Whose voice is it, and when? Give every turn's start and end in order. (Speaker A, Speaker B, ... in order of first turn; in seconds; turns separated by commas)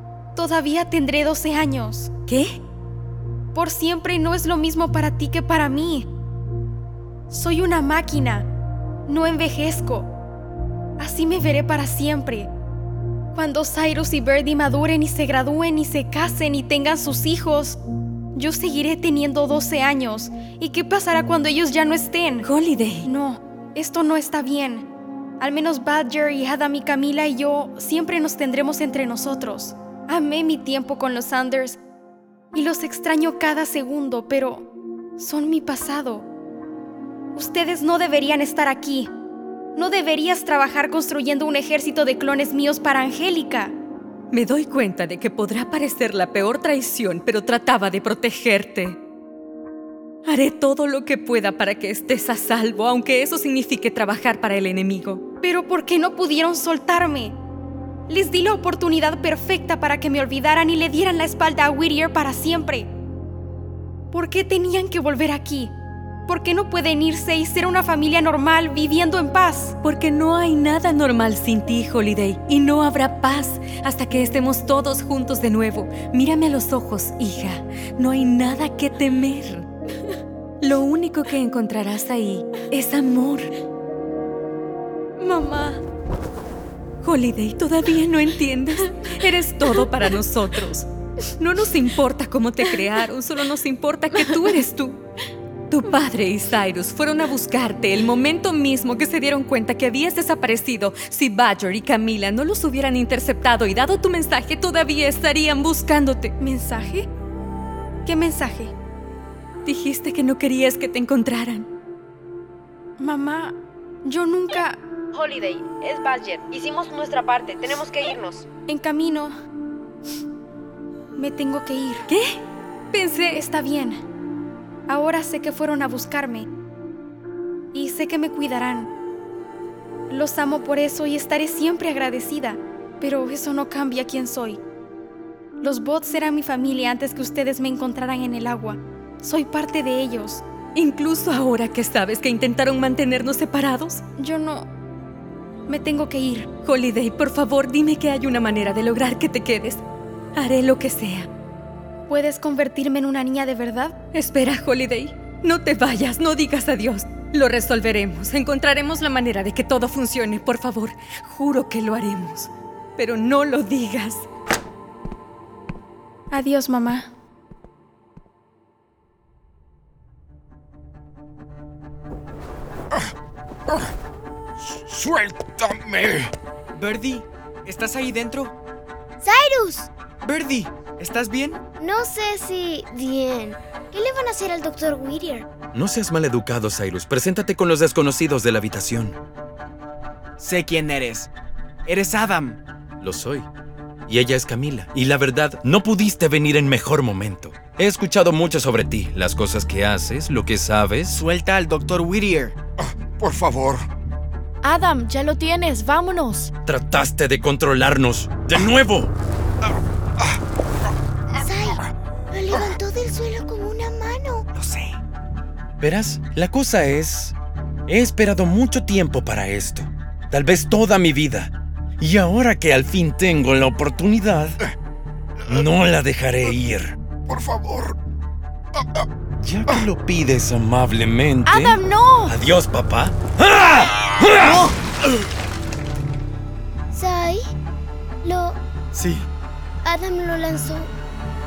Speaker A: 0.4-2.1, Speaker B: 2.3-2.6, Speaker A: 3.5-6.1, Speaker A: 7.3-8.5, Speaker A: 9.1-10.1, Speaker A: 11.0-12.5, Speaker A: 13.3-17.8, Speaker A: 18.4-22.5, Speaker B: 22.4-23.1, Speaker A: 23.1-24.9, Speaker A: 25.4-31.8, Speaker A: 32.5-36.3, Speaker A: 37.4-39.1, Speaker A: 39.8-43.7, Speaker B: 44.3-49.0, Speaker B: 50.3-55.2, Speaker A: 55.4-57.4, Speaker A: 58.1-62.9, Speaker A: 64.1-65.7, Speaker A: 66.3-69.8, Speaker B: 69.8-79.7, Speaker B: 80.6-83.5, Speaker A: 85.2-85.8, Speaker B: 87.0-90.9, Speaker B: 91.4-95.0, Speaker B: 95.7-106.3, Speaker A: 106.4-107.1, Speaker A: 108.1-108.7, Speaker B: 109.7-111.7, Speaker A: 113.0-114.8, Speaker C: 115.1-118.5, Speaker A: 118.7-119.3, Speaker A: 121.2-122.1, Speaker B: 122.1-122.4, Speaker B: 122.9-123.4, Speaker A: 123.3-124.0, Speaker A: 124.9-126.5, Speaker A: 127.7-128.9, Speaker A: 130.1-134.6, Speaker A: 135.6-140.4, Speaker B: 140.8-144.0, Speaker A: 144.2-144.7, Speaker A: 145.7-146.5, Speaker B: 146.6-149.8, Speaker B: 150.3-151.3, Speaker A: 152.1-154.0, Speaker B: 154.1-164.3, Speaker A: 166.3-167.1, Speaker D: 174.7-176.3, Speaker E: 176.8-178.5, Speaker F: 179.2-179.9, Speaker E: 180.2-181.6, Speaker F: 181.8-185.5, Speaker G: 185.7-189.2, Speaker E: 190.4-191.3, Speaker E: 191.9-192.6, Speaker G: 193.0-193.5, Speaker G: 194.1-201.2, Speaker E: 201.1-202.5, Speaker D: 202.8-203.9, Speaker H: 204.6-206.5, Speaker G: 206.7-209.1, Speaker F: 211.4-211.8, Speaker F: 212.3-214.4, Speaker E: 214.6-215.0, Speaker G: 215.8-217.3, Speaker G: 217.9-224.6, Speaker G: 225.5-226.9, Speaker D: 227.3-227.9, Speaker G: 229.4-234.6, Speaker H: 231.5-232.3, Speaker F: 236.9-237.4, Speaker F: 238.2-238.6, Speaker E: 239.0-239.3, Speaker F: 239.8-240.9